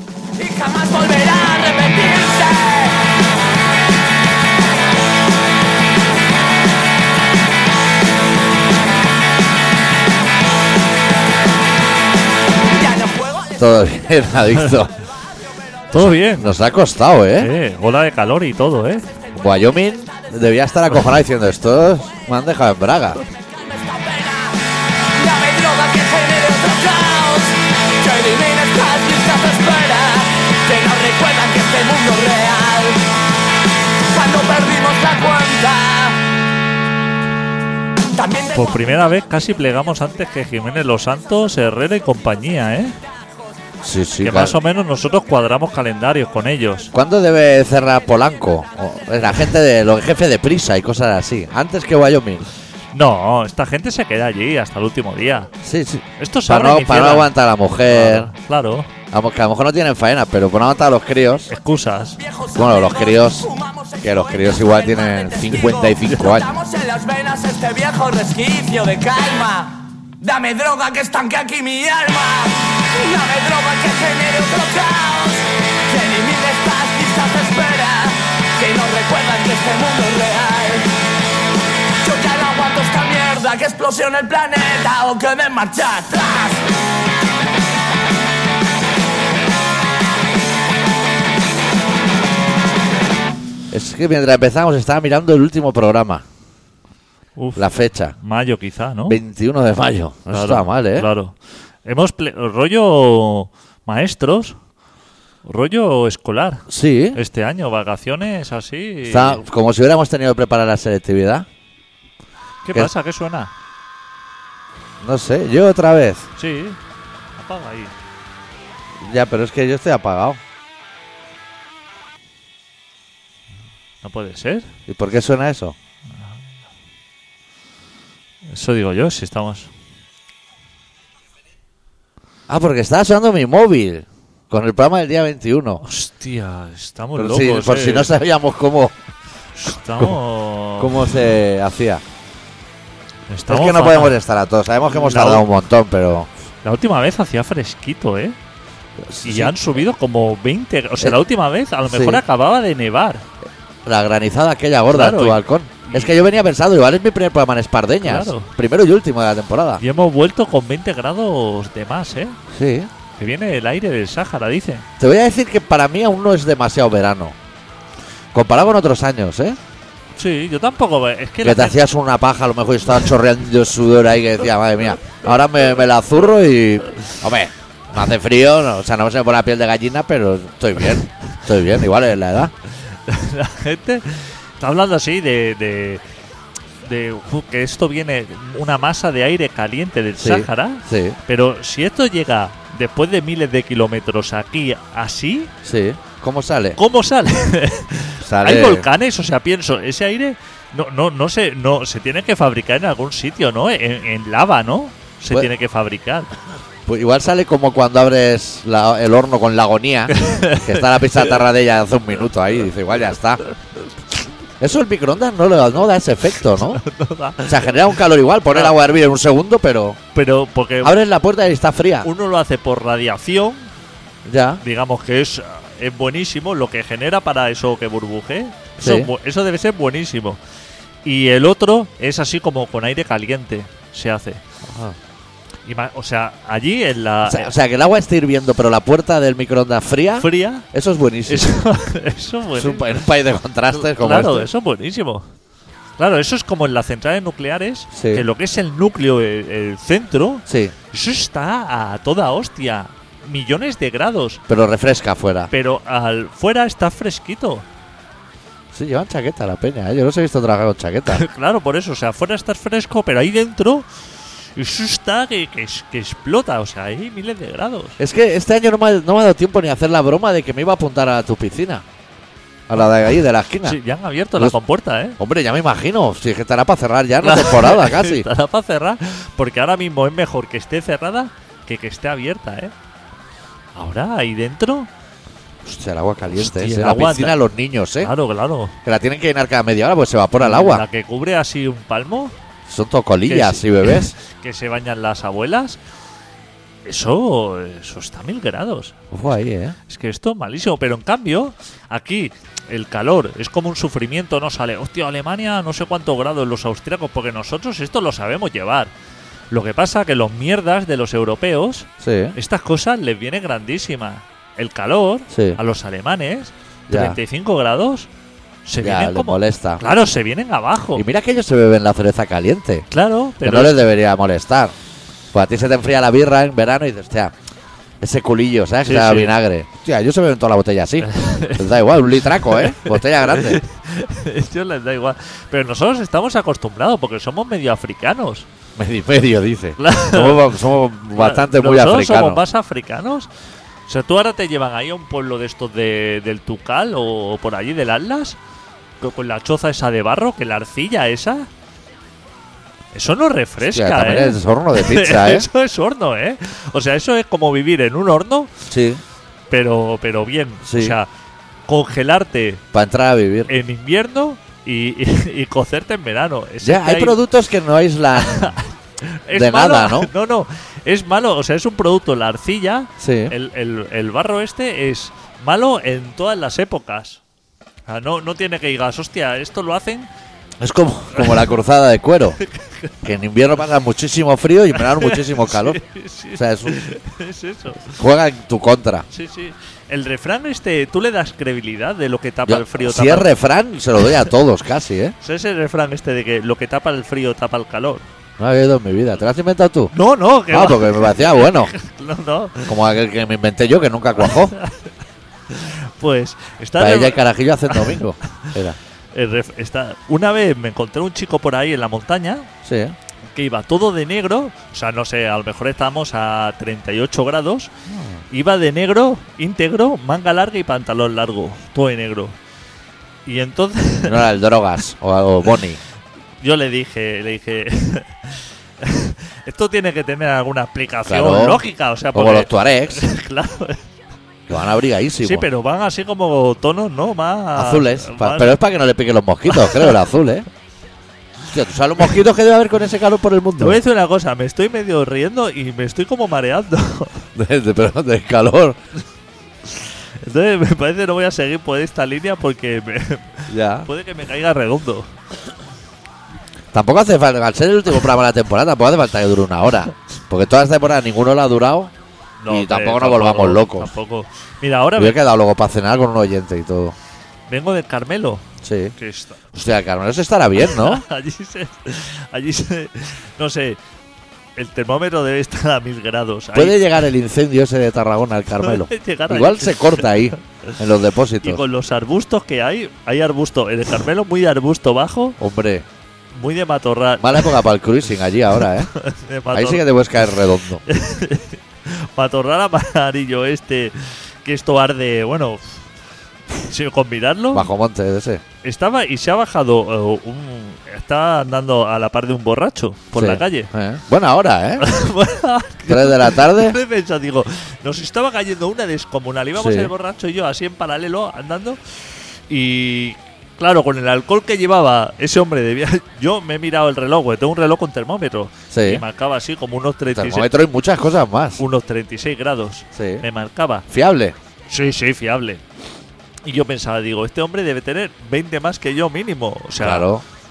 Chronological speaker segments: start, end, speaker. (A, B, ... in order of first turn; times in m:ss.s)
0:00.4-0:03.1 A
0:12.7-0:13.5 A
0:13.6-0:14.9 B
0:15.9-0:16.5 C
0:16.0-0:17.5 B
0:17.4-0:19.1 C
0:19.3-0:23.2 B
0:23.5-0:33.2 A
0:34.1-0:36.2 A
0:38.1-0:38.9 A
0:38.5-0:43.0 C
0:43.8-0:44.6 B
0:44.2-0:46.9 C
0:46.9-0:52.5 B
0:52.9-0:55.5 C
0:55.6-0:58.3 B
0:56.2-0:57.3 C
0:57.9-0:58.9 C
0:59.1-1:01.5 B
1:01.5-1:02.2 C
1:02.2-1:20.9 A
1:02.6-1:03.5 B
1:04.0-1:06.5 B
1:22.0-1:26.6 A
1:33.7-1:36.2 B
1:37.4-1:39.2 C
1:37.6-1:38.2 B
1:39.1-1:41.1 B
1:40.3-1:44.6 C
1:45.4-1:49.4 C
1:46.7-1:47.2 B
1:49.1-1:51.5 B
1:52.6-1:53.5 C
1:55.0-1:56.3 B
1:56.4-1:56.8 C
1:57.4-1:57.9 C
1:59.0-2:00.4 B
2:04.0-2:04.7 C
2:04.9-2:05.8 B
2:08.5-2:09.7 C
2:12.5-2:15.8 B
2:15.8-2:18.1 C
2:17.2-2:19.0 B
2:19.6-2:21.3 C
2:20.8-2:22.0 B
2:23.3-2:24.2 C
2:23.5-2:26.3 B
2:24.9-2:25.4 C
2:26.6-2:28.4 C
2:29.0-2:29.8 B
2:29.2-2:33.2 C
2:31.9-2:32.2 B
2:33.9-2:39.8 B
2:34.9-2:36.1 C
2:38.0-2:38.5 C
2:39.8-2:42.4 C
2:42.5-2:42.9 B
2:43.2-2:44.9 C
2:45.0-2:47.4 B
2:48.3-2:49.6 B
2:50.2-2:51.8 C
2:51.4-3:02.5 B
3:02.9-3:06.0 C
3:06.8-3:15.5 C
3:10.2-3:11.2 B
3:15.6-3:16.8 B
3:16.8-3:26.3 C
3:18.2-3:18.9 B
3:26.9-3:33.4 B
3:30.1-3:31.4 C
3:34.6-3:36.8 B
3:36.6-3:37.7 C
3:37.4-3:40.0 B
3:38.5-3:38.8 C
3:40.1-3:41.0 C
3:40.8-3:42.1 B
3:42.0-3:43.7 C
3:44.3-3:44.6 B
3:44.6-3:50.4 C
3:48.8-3:49.1 B
3:51.0-3:54.4 C
3:54.6-3:55.0 B
3:55.7-3:57.5 C
3:57.3-4:01.5 B
4:00.2-4:00.6 C
4:01.3-4:03.0 C
4:02.6-4:04.5 B
4:03.7-4:05.3 C
4:06.0-4:14.4 C
4:07.9-4:08.2 B
4:10.5-4:10.7 B
4:14.5-4:15.5 B
4:15.5-4:17.7 C
4:18.7-4:21.2 B
4:21.1-4:23.9 C
4:24.6-4:28.0 C
4:28.0-4:31.8 B
4:32.7-4:33.8 B
4:33.6-4:35.2 C
4:35.2-4:38.3 B
4:37.2-4:42.7 C
4:43.8-4:44.9 C
4:45.6-4:48.1 B
4:46.4-4:47.4 C
4:48.0-4:48.8 C
4:48.8-4:50.8 B
4:50.4-4:52.4 C
4:52.7-4:54.1 B
4:53.3-4:55.8 C
4:56.9-4:59.0 C
4:59.1-4:59.8 B
4:59.9-5:08.9 C
5:09.5-5:18.1 C
5:12.0-5:12.4 B
5:15.3-5:15.6 B
5:16.9-5:17.2 B
5:18.7-5:21.0 C
5:18.8-5:19.8 B
5:20.9-5:22.9 B
5:22.9-5:23.8 C
5:23.4-5:24.7 B
5:25.3-5:27.3 B
5:28.0-5:33.6 B
5:28.8-5:29.4 C
5:31.0-5:31.8 C
5:32.3-5:38.5 C
5:38.8-5:42.4 B
5:39.8-5:40.6 C
5:41.1-5:43.3 C
5:43.9-5:48.4 C
5:49.0-5:51.5 C
5:52.9-5:58.5 C
5:53.6-5:55.5 B
5:58.7-5:59.0 B
5:59.5-6:01.1 C
6:00.6-6:01.0 B
6:01.7-6:02.6 C
6:02.7-6:03.5 B
6:03.5-6:07.2 C
6:06.6-6:08.6 B
6:08.2-6:17.2 C
6:09.3-6:10.1 B
6:13.0-6:13.3 B
6:17.9-6:20.1 C
6:20.6-6:22.4 B
6:21.1-6:21.4 C
6:22.4-6:22.9 C
6:23.0-6:25.8 B
6:24.8-6:27.9 C
6:26.4-6:26.8 B
6:27.9-6:29.1 B
6:29.1-6:33.3 C
6:32.5-6:35.2 B
6:35.2-6:38.0 C
6:38.4-6:39.9 B
6:39.9-6:42.7 C
6:40.5-6:41.7 B
6:42.7-6:44.5 B
6:44.2-6:45.0 C
6:45.5-6:48.5 C
6:46.8-6:48.8 B
6:49.1-6:52.5 C
6:52.6-6:53.0 B
6:53.3-6:57.7 C
6:57.9-6:58.2 B
6:58.3-7:02.4 C
7:03.2-7:04.3 C
7:04.1-7:05.8 B
7:06.4-7:13.8 C
7:11.1-7:13.0 B
7:14.5-7:15.5 B
7:15.2-7:18.6 C
7:17.6-7:20.5 B
7:19.5-7:19.9 C
7:21.5-7:23.8 B
7:23.6-7:27.2 C
7:27.4-7:28.8 B
7:29.7-7:35.1 C
7:33.5-7:33.9 B
7:36.7-7:41.9 B
7:42.4-7:45.2 C
7:42.5-7:43.9 B
7:45.0-7:47.0 B
7:47.5-7:49.4 C
7:48.6-7:49.0 B
7:49.5-7:51.0 B
7:50.7-7:53.8 C
7:54.6-7:57.0 C
7:56.5-8:01.6 B
7:58.6-8:00.7 C
8:01.4-8:05.4 C
8:05.4-8:05.9 B
8:06.4-8:07.6 C
8:07.2-8:08.9 B
8:08.8-8:09.8 C
8:09.5-8:10.8 B
8:10.9-8:15.8 C
8:16.5-8:17.7 C
8:17.5-8:18.4 B
8:18.6-8:23.7 C
8:23.1-8:24.9 B
8:24.8-8:32.0 C
8:25.9-8:26.8 B
8:29.6-8:29.9 B
8:32.5-8:40.5 C
8:38.7-8:39.0 B
8:40.1-8:41.6 B
8:41.6-8:43.8 C
8:43.0-8:43.2 B
8:43.9-8:44.4 B
8:44.7-8:45.6 C
8:46.4-8:50.1 C
8:49.8-8:50.2 B